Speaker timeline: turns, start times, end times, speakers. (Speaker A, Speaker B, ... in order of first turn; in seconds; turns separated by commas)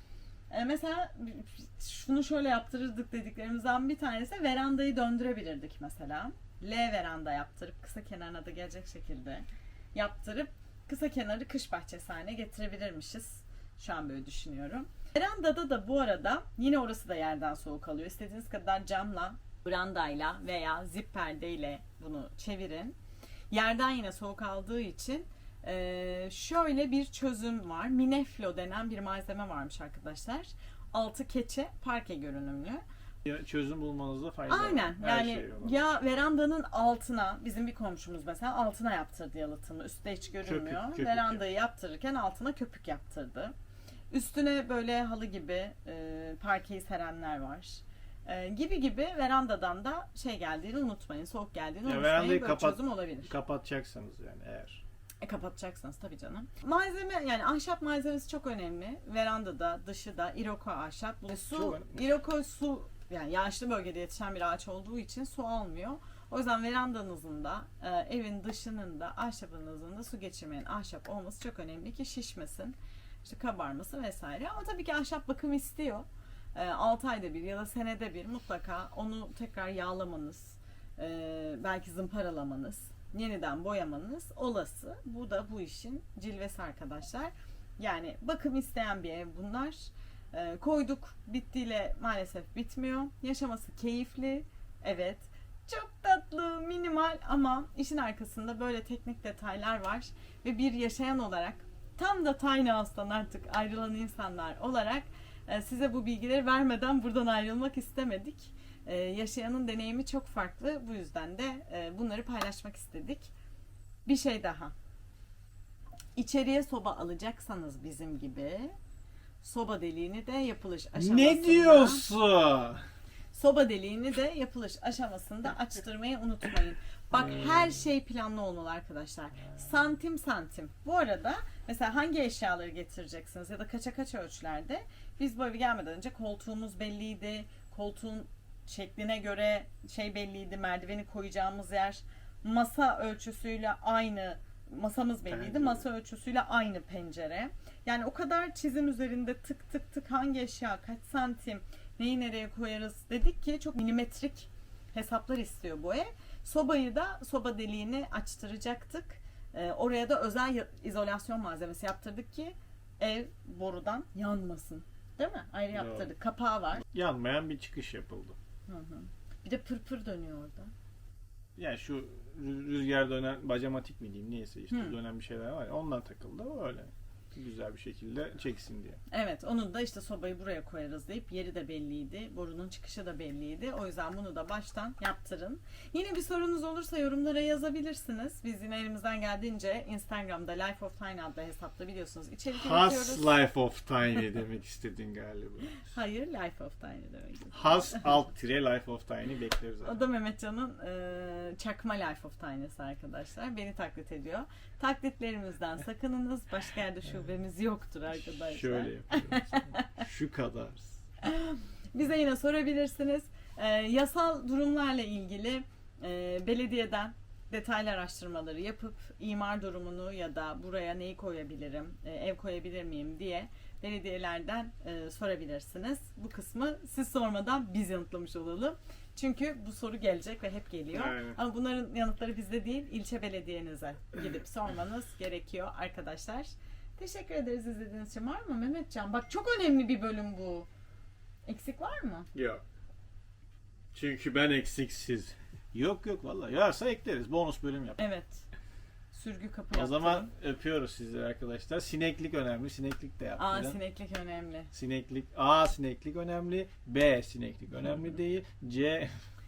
Speaker A: 0.5-22.9, Speaker A: 23.5-32.8, Speaker B: 33.2-35.8, Speaker A: 34.5-43.5, Speaker B: 40.4-41.5, Speaker A: 44.1-53.3, Speaker B: 51.8-54.8, Speaker A: 55.2-113.3, Speaker B: 61.3-62.0, Speaker A: 114.0-114.7, Speaker A: 116.2-118.7, Speaker A: 119.4-122.1, Speaker B: 121.0-122.8, Speaker A: 123.3-166.8, Speaker B: 127.2-127.8, Speaker B: 145.3-145.8, Speaker B: 165.7-166.1, Speaker B: 166.8-168.4, Speaker A: 168.7-170.7, Speaker B: 171.6-179.0, Speaker A: 179.1-193.3, Speaker B: 192.5-195.8, Speaker A: 195.8-198.2, Speaker B: 197.5-200.0, Speaker A: 199.8-210.0, Speaker B: 208.1-211.0, Speaker A: 211.2-240.7, Speaker B: 230.9-231.4, Speaker A: 241.4-242.3, Speaker B: 242.3-242.6, Speaker B: 243.9-248.0, Speaker A: 248.0-248.4, Speaker A: 249.1-250.3, Speaker B: 249.7-253.8, Speaker A: 253.4-254.7, Speaker B: 254.7-259.2